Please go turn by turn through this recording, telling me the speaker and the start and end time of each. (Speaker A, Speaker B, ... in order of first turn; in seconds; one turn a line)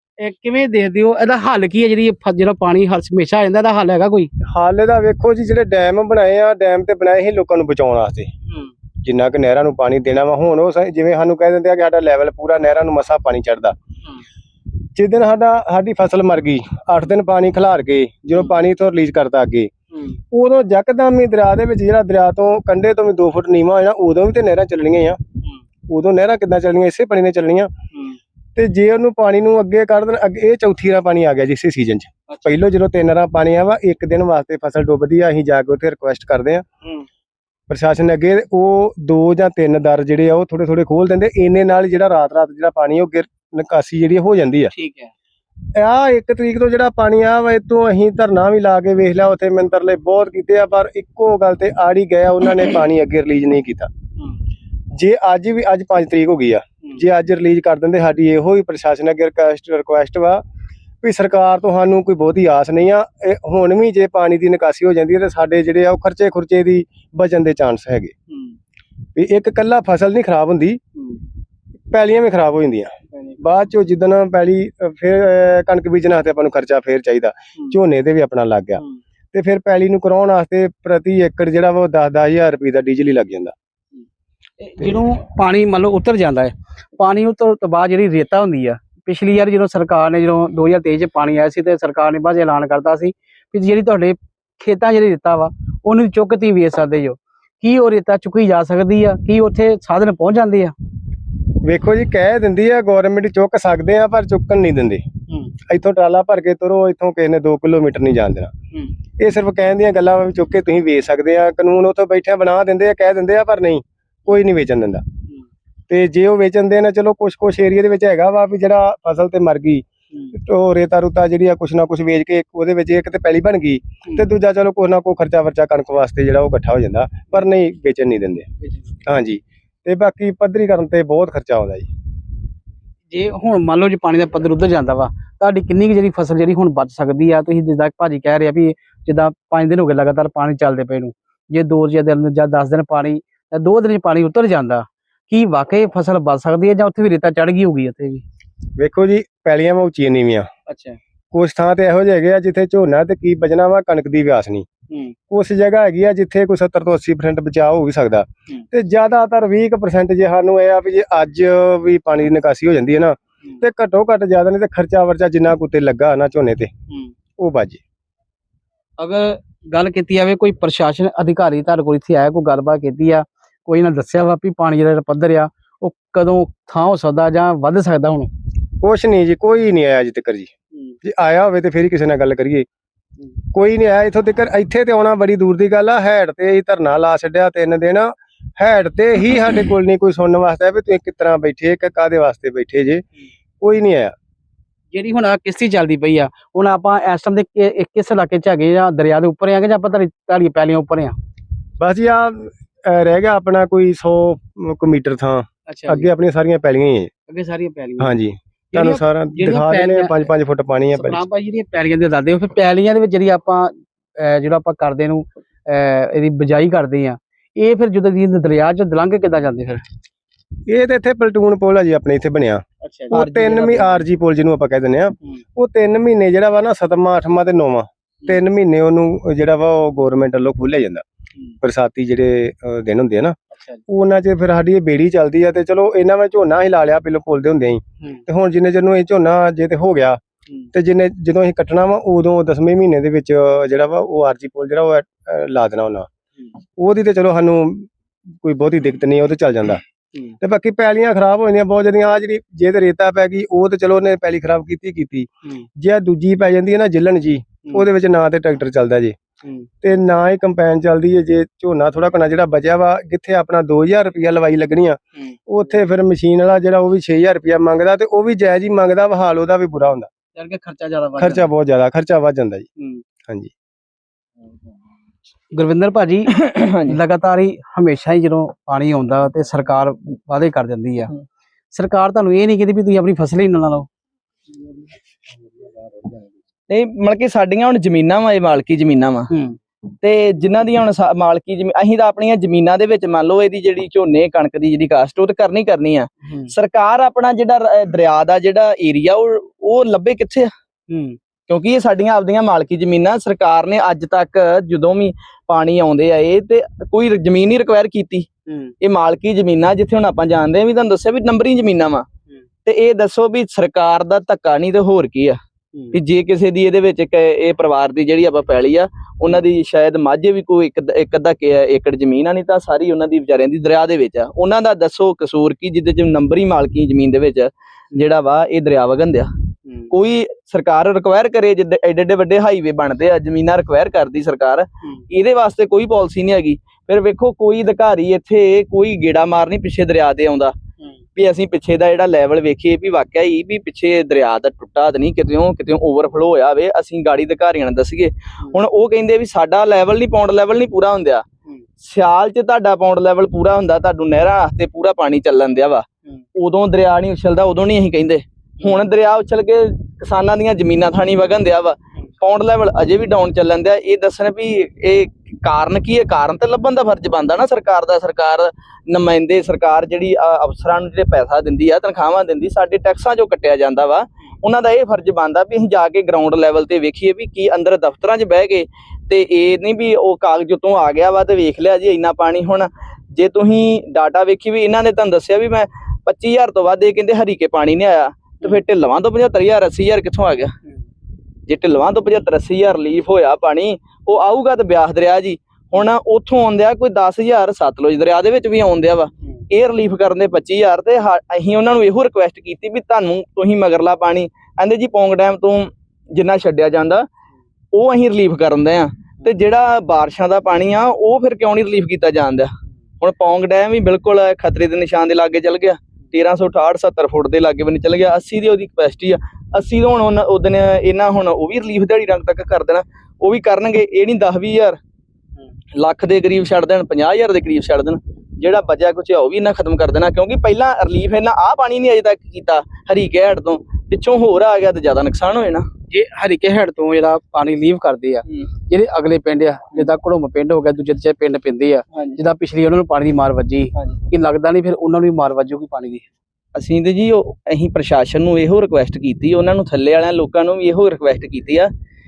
Speaker A: 0.2-4.3
Speaker B: 4.4-8.3
Speaker B: 9.0-13.8
Speaker B: 14.9-19.7
Speaker A: 19.9-20.2
Speaker B: 20.3-25.2
Speaker B: 25.9-27.7
Speaker B: 28.6-36.6
Speaker B: 37.7-44.7
Speaker A: 44.7-45.1
Speaker B: 45.8-53.9
Speaker B: 55.0-60.4
Speaker B: 61.0-68.1
Speaker B: 69.2-70.8
Speaker B: 71.9-78.8
Speaker A: 73.1-73.4
Speaker B: 79.3-83.5
Speaker A: 84.6-100.7
Speaker B: 101.6-105.1
Speaker A: 105.3-105.5
Speaker B: 105.7-108.5
Speaker B: 109.2-115.0
Speaker B: 115.9-128.5
Speaker B: 129.1-131.9
Speaker A: 133.1-148.2
Speaker B: 148.8-150.5
Speaker A: 150.7-151.0
Speaker B: 151.3-154.7
Speaker B: 155.3-166.7
Speaker B: 167.4-167.8
Speaker A: 169.0-178.3
Speaker B: 178.8-180.5
Speaker B: 181.0-182.7
Speaker B: 183.5-193.0
Speaker B: 193.6-194.1
Speaker A: 194.9-201.2
Speaker B: 201.8-207.1
Speaker A: 205.7-206.1
Speaker A: 207.3-208.2
Speaker B: 208.0-211.2
Speaker A: 208.7-210.2
Speaker A: 210.9-219.8
Speaker B: 220.7-231.0
Speaker A: 222.8-223.2
Speaker C: 223.1-224.0
Speaker B: 231.6-233.4
Speaker B: 233.9-240.2
Speaker B: 240.7-246.1
Speaker B: 246.8-247.9
Speaker B: 248.4-249.8
Speaker B: 250.4-259.2
Speaker A: 259.4-259.7
Speaker B: 259.8-270.1
Speaker A: 270.4-271.5
Speaker B: 271.2-272.7
Speaker A: 272.8-273.0
Speaker B: 273.2-273.5
Speaker A: 275.5-281.1
Speaker C: 276.3-277.0
Speaker A: 281.7-283.9
Speaker C: 286.7-289.3
Speaker A: 289.3-289.6
Speaker C: 290.0-300.5
Speaker A: 296.2-296.5
Speaker A: 300.9-301.2
Speaker C: 301.5-308.3
Speaker A: 308.5-308.7
Speaker C: 308.8-312.1
Speaker C: 312.6-315.4
Speaker C: 315.9-329.3
Speaker A: 329.7-329.9
Speaker C: 329.9-340.6
Speaker C: 341.2-351.2
Speaker C: 351.8-355.9
Speaker C: 356.4-390.5
Speaker C: 391.5-407.1
Speaker C: 407.7-424.8
Speaker C: 425.8-435.7
Speaker A: 435.9-446.1
Speaker C: 446.6-451.7